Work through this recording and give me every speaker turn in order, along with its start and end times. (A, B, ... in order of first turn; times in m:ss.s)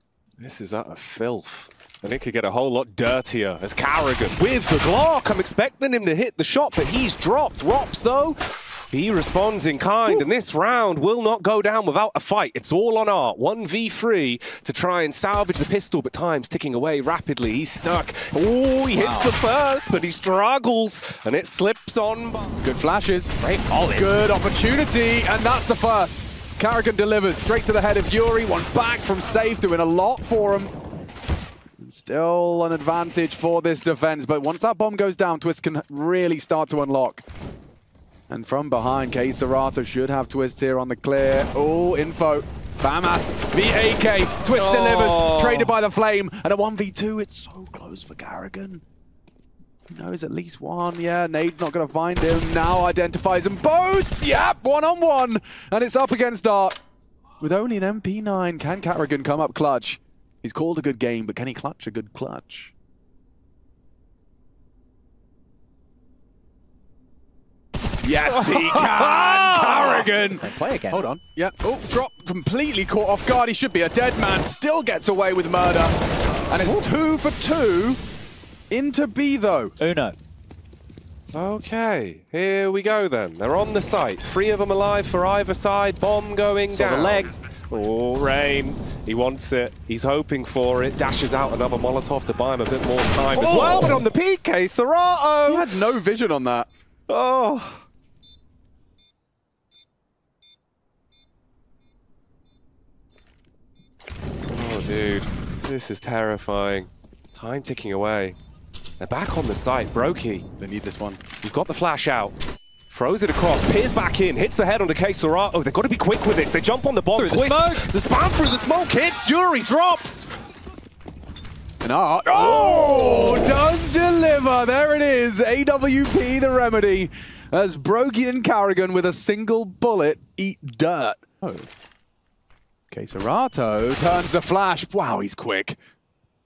0:00.4-0:22.6 A
0:19.0-0:19.4 B
0:22.6-0:23.4 B
0:23.4-0:24.1 C
0:23.9-0:30.7 B
0:31.8-0:37.2 B
0:38.3-0:48.8 B
0:44.5-0:45.7 A
0:49.9-0:56.8 B
0:57.4-1:02.7 B
1:08.0-1:18.0 B
1:08.3-1:11.1 C
1:18.7-1:19.8 B
1:19.8-1:20.2 C
1:21.3-1:35.9 A
1:26.7-1:27.3 C
1:33.4-1:34.0 B
1:35.4-1:36.7 B
1:37.1-1:37.9 A
1:44.5-1:48.4 A
1:49.0-1:50.4 A
1:50.6-1:51.2 B
1:51.4-1:52.3 A
1:52.9-2:00.3 A
1:57.2-1:57.9 C
2:01.8-2:11.7 B
2:12.9-2:15.8 B